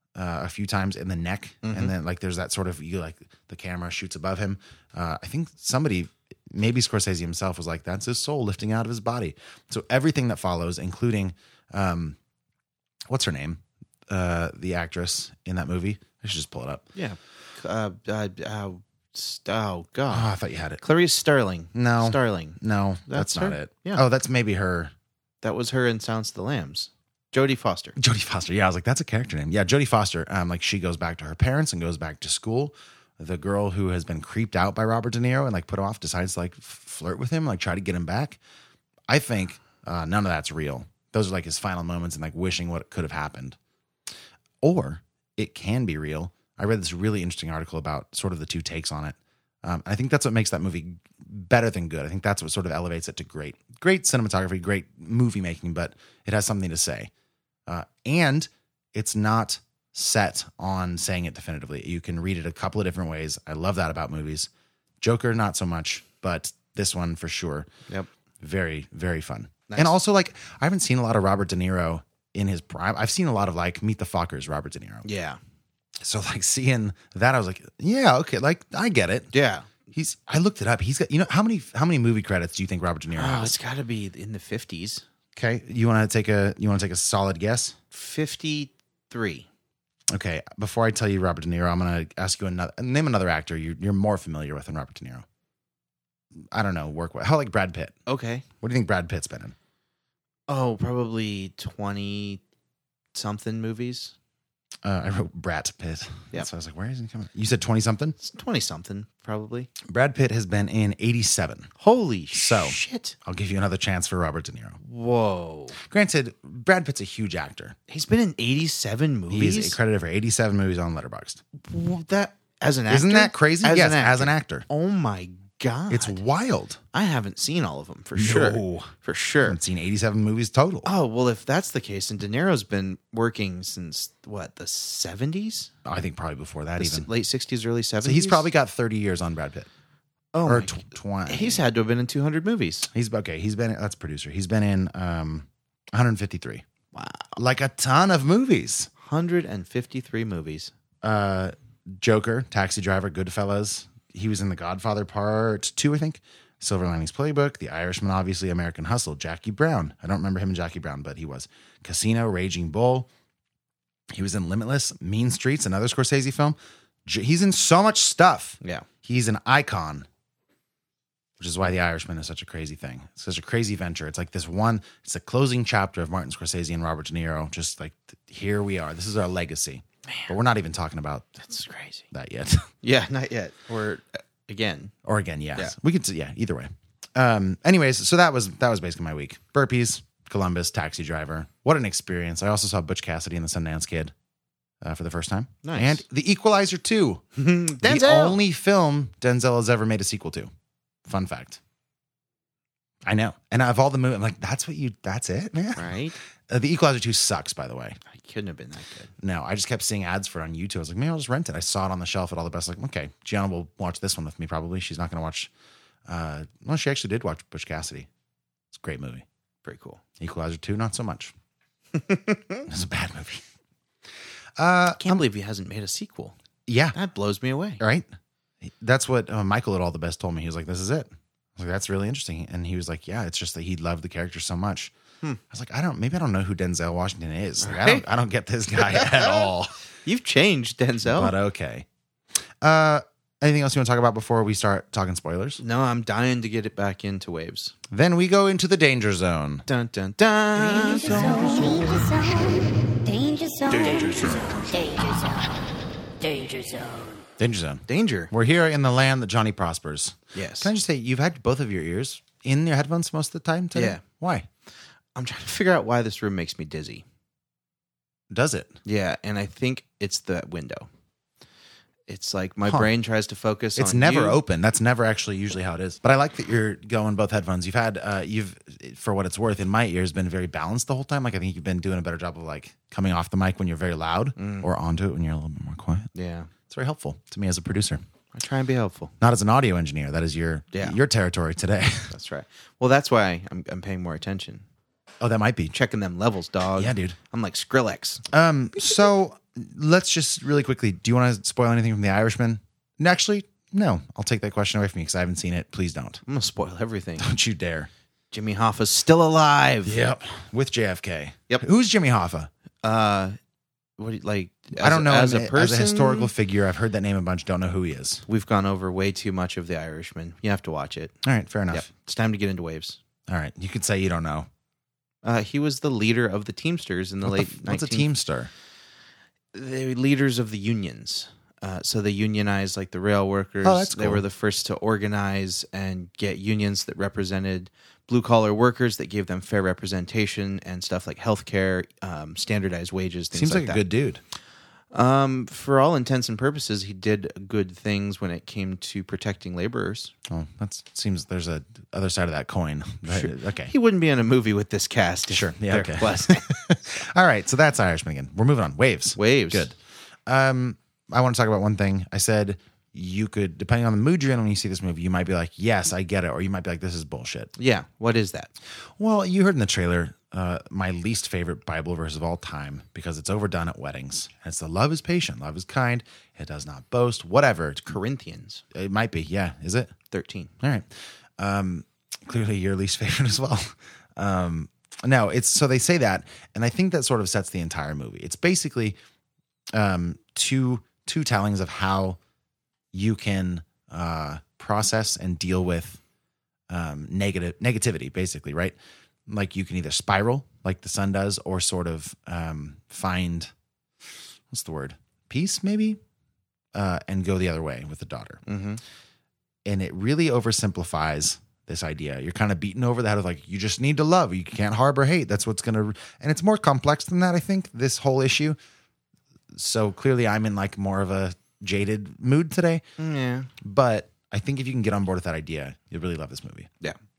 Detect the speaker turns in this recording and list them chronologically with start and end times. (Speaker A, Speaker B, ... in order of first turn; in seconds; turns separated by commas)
Speaker A: 0.1-12.2, Speaker B: 1.6-1.9, Speaker A: 13.1-16.9, Speaker B: 16.9-20.3, Speaker A: 20.1-20.8, Speaker B: 20.8-24.0, Speaker A: 21.7-24.9, Speaker B: 25.4-27.9, Speaker A: 27.9-38.4, Speaker A: 39.1-43.6, Speaker A: 44.6-57.1, Speaker A: 57.7-64.5, Speaker A: 65.0-67.7, Speaker A: 68.4-75.1, Speaker B: 69.7-69.9, Speaker B: 75.0-75.4, Speaker A: 76.0-79.3, Speaker B: 79.3-79.7, Speaker A: 79.9-83.5, Speaker B: 83.1-85.0, Speaker A: 85.3-87.8, Speaker B: 87.9-89.5, Speaker A: 90.1-95.2, Speaker A: 96.4-98.0, Speaker B: 98.1-98.4, Speaker A: 98.6-99.5, Speaker B: 100.5-102.4, Speaker B: 103.1-104.1, Speaker A: 104.8-108.2, Speaker B: 108.2-109.7, Speaker A: 109.8-111.7, Speaker B: 111.8-113.1, Speaker A: 112.3-114.8, Speaker B: 114.8-115.8, Speaker A: 115.8-117.8, Speaker B: 117.9-119.8, Speaker A: 119.3-121.4, Speaker B: 121.6-126.2, Speaker A: 122.9-124.7, Speaker A: 125.9-126.8, Speaker B: 126.9-129.6, Speaker A: 128.1-128.9, Speaker A: 129.4-130.9, Speaker B: 130.8-135.7, Speaker A: 135.8-137.1, Speaker B: 136.8-138.5, Speaker A: 138.0-139.7, Speaker B: 140.3-142.9, Speaker A: 140.4-141.6, Speaker A: 142.9-146.6, Speaker B: 146.9-147.3, Speaker A: 147.3-148.9, Speaker B: 149.0-150.7, Speaker A: 151.0-163.1, Speaker A: 164.1-170.1, Speaker A: 171.4-181.5, Speaker B: 180.1-180.3, Speaker B: 181.5-182.1, Speaker A: 182.1-182.7, Speaker B: 182.8-184.9, Speaker A: 185.0-194.1, Speaker A: 194.8-197.2, Speaker B: 195.6-196.0, Speaker B: 197.3-198.4, Speaker A: 197.8-200.5, Speaker A: 201.1-201.6, Speaker A: 203.1-208.0, Speaker B: 205.8-206.2, Speaker B: 208.1-209.1, Speaker A: 209.2-215.5, Speaker A: 216.1-218.1, Speaker A: 218.7-219.2, Speaker B: 219.6-220.0, Speaker A: 220.2-221.3, Speaker B: 221.9-222.6, Speaker A: 222.7-223.4, Speaker A: 224.6-225.2, Speaker B: 224.9-226.3, Speaker A: 226.7-226.9, Speaker B: 226.9-227.8, Speaker A: 227.8-228.1, Speaker A: 228.6-234.9, Speaker A: 235.5-239.7, Speaker B: 237.6-238.0, Speaker B: 238.9-239.5, Speaker B: 240.0-241.3, Speaker A: 241.0-241.8, Speaker A: 242.6-245.6, Speaker B: 245.6-247.7, Speaker A: 247.9-249.6, Speaker B: 249.7-251.8, Speaker C: 250.6-255.6, Speaker B: 253.8-254.2, Speaker C: 256.2-257.2, Speaker A: 257.4-264.5, Speaker B: 257.9-258.3, Speaker B: 260.3-260.7, Speaker B: 263.7-264.0, Speaker B: 265.1-267.0, Speaker A: 268.3-268.8, Speaker B: 268.8-270.9, Speaker B: 272.1-274.4, Speaker A: 272.6-272.9, Speaker A: 273.8-286.1, Speaker B: 284.4-284.7, Speaker B: 286.1-286.5, Speaker A: 286.7-288.0, Speaker B: 288.3-289.1, Speaker A: 289.2-292.1, Speaker B: 290.7-291.0, Speaker B: 292.1-294.6, Speaker A: 295.2-295.8, Speaker B: 295.7-298.2, Speaker A: 296.8-297.1, Speaker A: 298.3-306.2, Speaker B: 306.2-307.3, Speaker A: 307.2-307.9, Speaker B: 308.3-310.0, Speaker A: 309.8-312.5, Speaker B: 312.8-313.4, Speaker B: 314.0-316.3, Speaker A: 314.8-318.2, Speaker B: 318.3-321.1, Speaker A: 321.2-321.9, Speaker B: 321.7-323.0, Speaker A: 323.3-324.5, Speaker B: 325.2-328.1, Speaker A: 327.2-328.5, Speaker B: 329.5-343.8, Speaker A: 333.6-334.2, Speaker A: 343.3-344.2, Speaker B: 344.9-350.1, Speaker A: 350.3-353.7, Speaker B: 353.1-356.4, Speaker A: 355.3-367.5, Speaker B: 359.1-359.7, Speaker B: 367.6-368.5, Speaker A: 369.0-377.9, Speaker B: 377.8-378.6, Speaker A: 378.7-379.9, Speaker B: 380.1-380.5, Speaker A: 380.6-389.0, Speaker A: 389.7-392.2, Speaker A: 392.9-396.0, Speaker A: 396.7-403.5, Speaker A: 404.5-406.0, Speaker A: 406.7-408.4, Speaker B: 408.5-408.8, Speaker A: 409.6-418.6, Speaker A: 419.5-422.8, Speaker B: 423.0-423.5, Speaker A: 423.6-426.7